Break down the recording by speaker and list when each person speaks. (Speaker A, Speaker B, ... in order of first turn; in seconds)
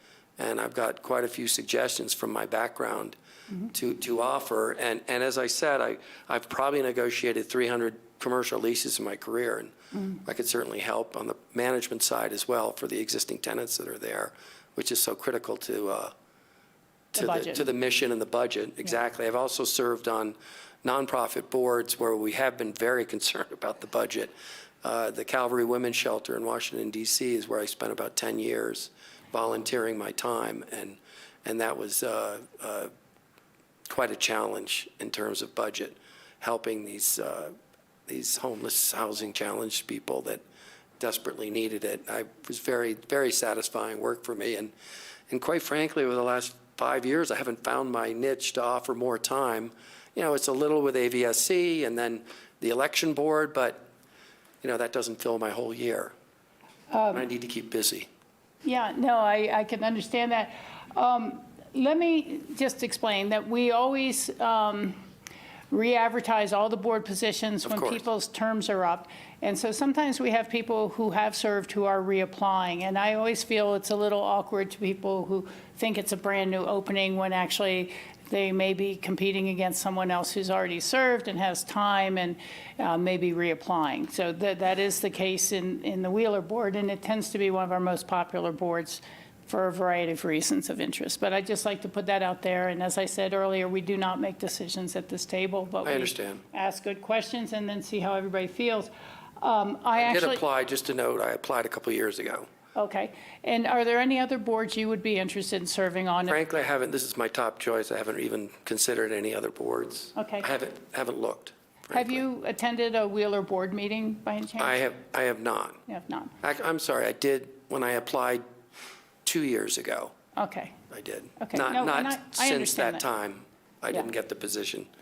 Speaker A: 0.4-3.1, 3.7-16.1, 17.1-24.3, 24.8-32.9, 33.9-37.5, 38.1-40.4, 41.0-44.7, 45.3-53.9, 54.6-56.1, 57.1-58.1, 67.6-68.0, 95.8-96.4, 99.9-102.5, 106.3-112.2, 114.6-115.8, 116.4-118.4, 119.2-120.1, 120.9-124.9
Speaker B: 17.1-17.7, 56.9-57.2, 58.6-65.0, 65.7-100.4, 102.7-106.4, 110.2-110.4, 111.9-114.8, 115.9-116.3, 120.4-120.7, 121.4-123.0